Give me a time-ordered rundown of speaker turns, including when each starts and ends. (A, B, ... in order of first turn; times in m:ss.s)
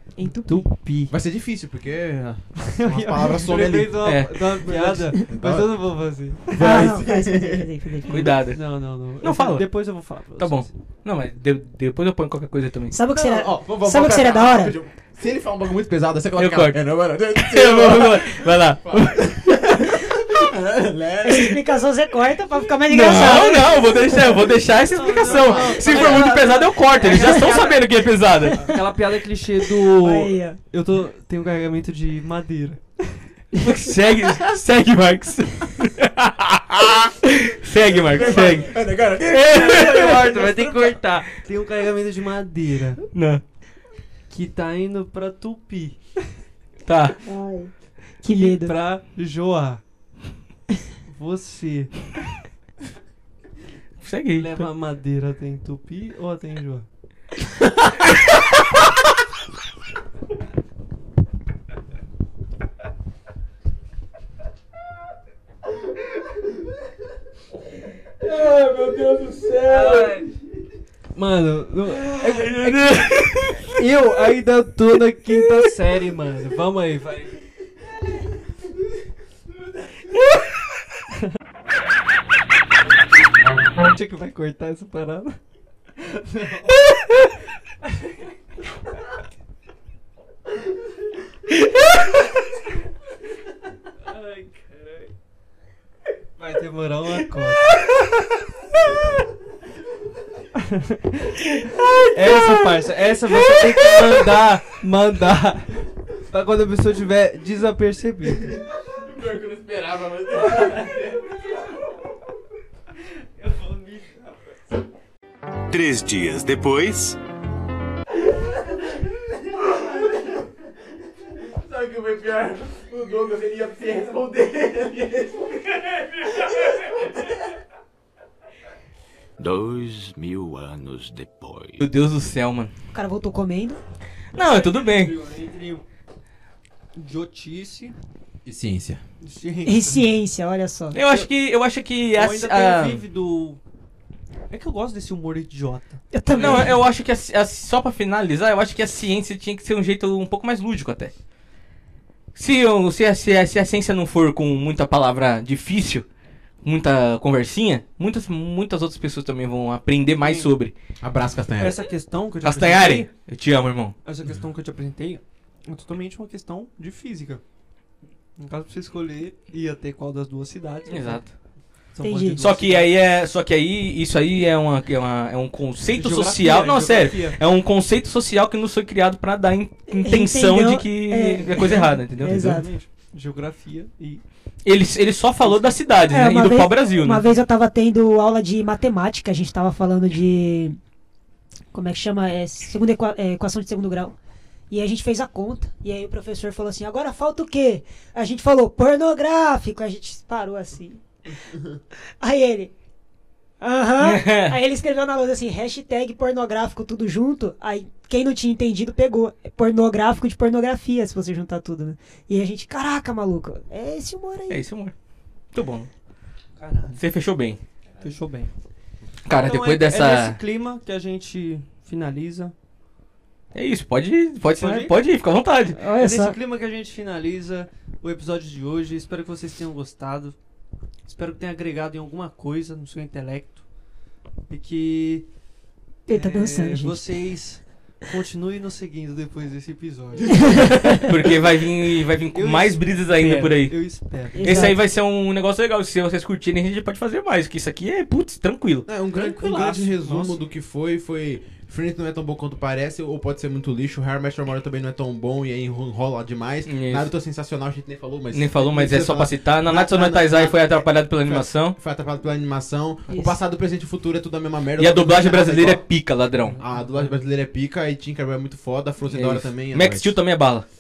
0:00.2-0:00.7 A
0:00.3-0:01.1 B
0:01.1-0:05.8 C
0:02.6-0:06.9 B
0:04.0-0:04.4 D
0:06.4-0:07.7 C
0:06.6-0:08.4 A
0:08.1-0:08.7 D
0:08.2-0:10.7 B
0:09.2-0:13.0 D
0:12.9-0:14.8 A
0:13.2-0:21.6 C
0:16.4-0:16.8 D
0:17.4-0:19.7 D
0:21.2-0:24.0 A
0:22.9-0:28.7 D
0:24.9-0:27.8 B
0:25.2-0:26.3 C
0:27.0-0:27.7 C
0:27.2-0:27.5 A
0:28.5-0:33.2 B
0:30.0-0:30.6 A
0:33.6-0:40.2 D
0:36.8-0:37.1 C
0:37.8-0:41.0 C
0:39.5-0:43.1 B
0:43.1-0:43.4 D
0:44.3-0:46.1 B
0:46.9-0:47.2 D
0:47.2-0:48.7 A
0:48.3-0:49.8 B
0:51.1-0:52.1 B
0:54.0-0:54.7 D
0:54.3-0:56.9 B
1:08.2-1:10.2 D
1:09.7-1:10.3 B
1:11.2-1:17.4 B
1:11.9-1:13.7 D
1:23.9-1:25.4 B
1:26.0-1:26.8 B
1:34.1-1:35.1 B
1:36.4-1:37.8 B
1:40.6-1:45.8 B
1:46.3-1:48.6 B
1:48.9-1:51.3 C
1:53.4-1:54.3 B
1:55.7-1:57.2 E
1:59.7-2:00.3 C
2:01.5-2:07.2 C
2:09.4-2:11.8 E
2:11.8-2:12.7 D
2:12.9-2:13.8 A
2:14.3-2:15.2 D
2:14.3-2:15.8 B
2:17.0-2:18.0 B
2:18.5-2:19.0 C
2:19.2-2:20.0 B
2:19.6-2:21.0 A
2:20.9-2:23.0 D
2:22.1-2:23.6 B
2:24.5-2:26.7 B
2:26.1-2:26.8 A
2:26.3-2:31.1 D
2:32.4-2:36.0 D
2:36.6-2:40.7 D
2:40.2-2:40.5 B
2:41.0-2:41.8 C
2:41.6-2:43.1 B
2:42.4-2:43.9 D
2:44.0-2:47.4 B
2:48.4-2:51.2 B
2:50.9-2:51.3 D
2:52.0-2:52.9 B
2:52.0-2:52.4 A
2:52.4-3:02.6 D
2:56.0-2:57.4 B
2:59.9-3:02.7 A
3:01.6-3:04.2 B
3:04.6-3:07.2 D
3:05.4-3:05.8 B
3:06.1-3:10.8 A
3:11.7-3:14.2 A
3:14.7-3:21.0 A
3:22.2-3:22.7 A
3:23.6-3:34.6 A
3:24.0-3:24.6 D
3:34.5-3:34.9 D
3:35.5-3:35.9 D
3:36.6-3:37.0 B
3:37.0-3:37.6 D
3:38.0-3:38.5 B
3:39.2-3:40.4 D
3:39.4-3:42.5 B
3:43.5-3:45.8 D
3:44.6-3:44.9 B
3:45.8-3:46.4 A
3:46.0-3:50.4 B
3:51.1-3:53.6 B
3:54.5-3:55.3 B
3:56.1-3:57.0 A
3:56.1-4:01.0 B
4:00.3-4:01.0 A
4:00.9-4:08.9 D
4:02.3-4:04.7 B
4:04.4-4:04.8 A
4:08.9-4:25.8 C
4:09.1-4:10.4 B
4:16.7-4:17.1 D
4:18.3-4:21.8 D
4:24.8-4:26.6 D
4:26.5-4:27.1 B
4:26.6-4:30.2 C
4:29.1-4:30.7 D